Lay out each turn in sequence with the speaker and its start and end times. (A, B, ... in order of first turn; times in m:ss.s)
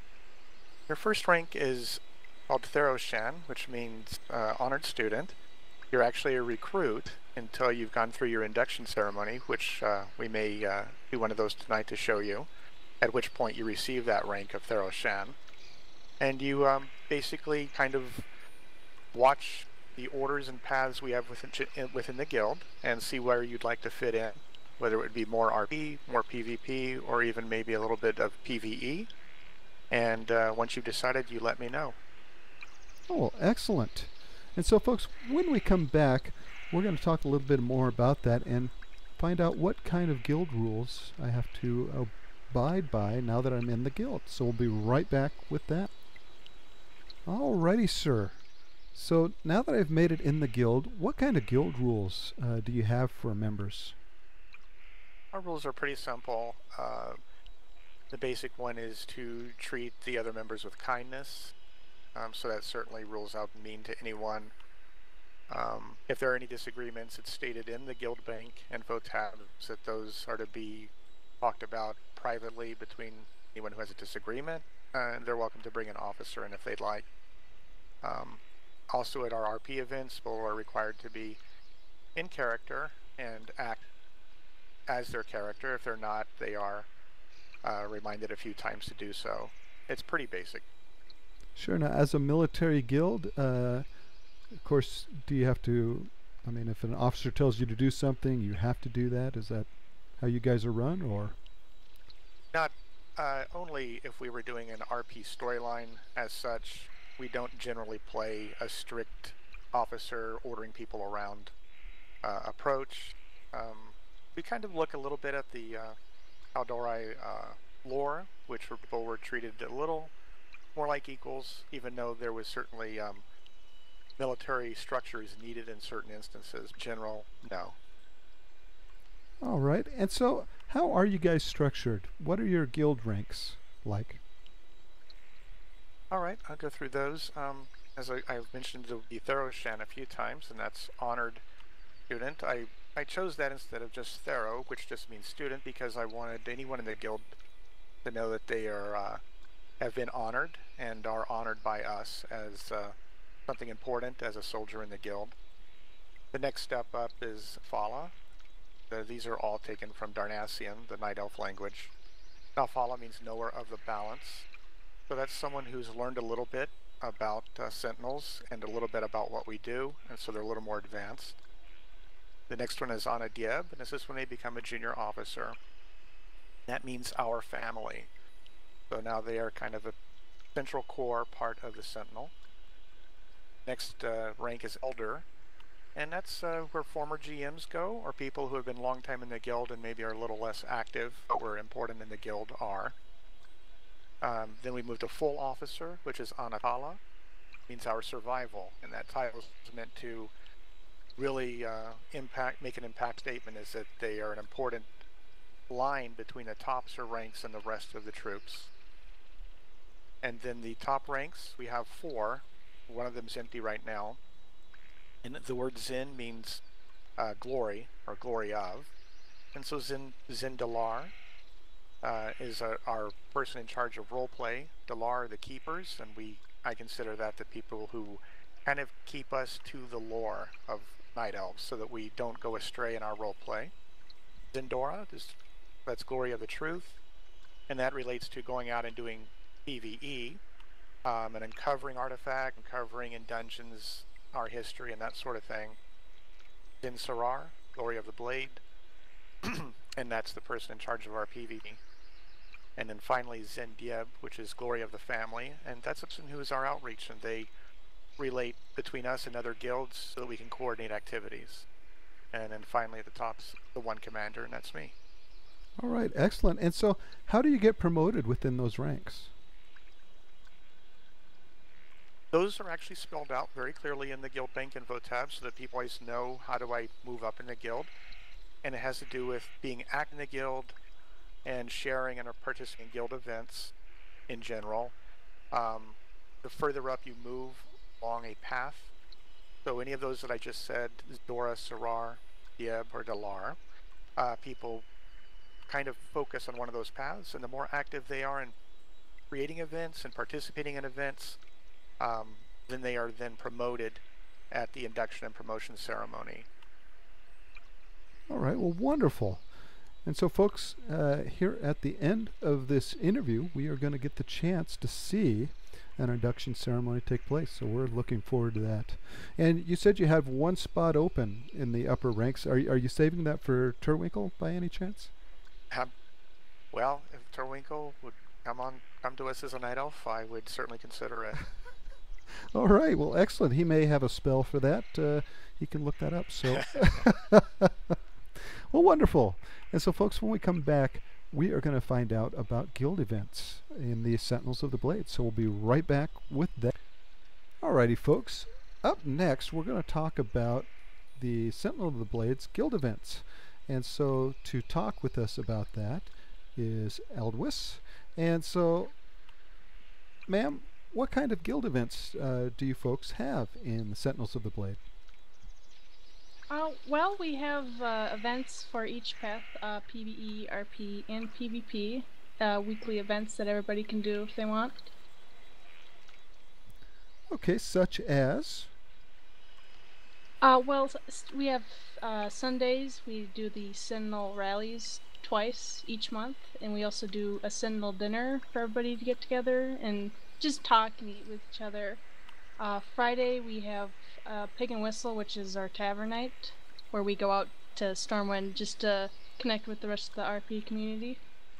0:00.9-0:05.4 A
0:05.9-0:12.5 A
0:13.0-0:15.4 A
0:16.2-0:18.2 A
0:19.1-0:29.1 A
0:29.9-0:32.0 A
0:33.1-0:45.9 B
0:47.2-0:48.4 B
0:48.9-0:54.0 B
0:55.3-0:57.2 A
0:58.1-1:01.5 A
1:02.1-1:04.5 A
1:05.5-1:17.0 A
1:18.0-1:21.4 A
1:22.1-1:23.9 A
1:24.9-1:26.9 A
1:27.6-1:30.7 A
1:31.6-1:33.8 B
1:34.6-1:39.7 B
1:40.2-1:41.4 B
1:42.5-1:51.5 A
1:52.2-1:56.0 A
1:56.5-2:00.1 A
2:00.7-2:03.2 A
2:04.2-2:07.8 A
2:09.4-2:14.2 B
2:16.1-2:21.4 A
2:22.1-2:27.3 A
2:28.0-2:29.2 A
2:29.8-2:32.9 A
2:33.5-2:35.3 A
2:36.3-2:38.1 A
2:38.9-2:41.9 A
2:42.6-2:44.4 A
2:45.1-2:51.4 A
2:52.5-2:55.6 A
2:56.7-2:58.1 A
2:58.9-2:59.9 A
3:00.5-3:02.3 A
3:03.6-3:05.2 A
3:05.9-3:12.9 A
3:14.2-3:17.0 A
3:17.7-3:20.3 A
3:21.2-3:24.9 A
3:25.7-3:28.7 A
3:30.2-3:34.2 A
3:35.2-3:36.6 A
3:37.2-3:38.9 A
3:39.5-3:41.1 A
3:42.0-3:53.7 A
3:54.5-3:57.0 A
3:57.7-4:00.4 A
4:01.0-4:05.8 A
4:06.8-4:08.6 A
4:09.4-4:11.8 A
4:12.8-4:17.5 A
4:18.2-4:21.6 A
4:22.3-4:24.9 A
4:25.8-4:29.3 B
4:32.3-4:37.9 A
4:38.6-4:40.8 A
4:41.4-4:43.7 A
4:44.3-4:44.9 A
4:45.5-4:48.9 A
4:49.6-4:53.6 A
4:54.2-4:54.8 A
4:55.7-4:58.5 A
4:59.3-5:01.4 A
5:02.0-5:06.5 A
5:08.3-5:09.4 B
5:10.0-5:25.1 B
5:26.7-5:31.4 A
5:32.5-5:38.0 B
5:38.5-5:46.7 B
5:47.6-5:58.9 B
6:00.3-6:04.8 B
6:06.5-6:14.9 C
6:17.3-6:18.7 B
6:20.4-6:32.0 C
6:32.6-6:41.2 C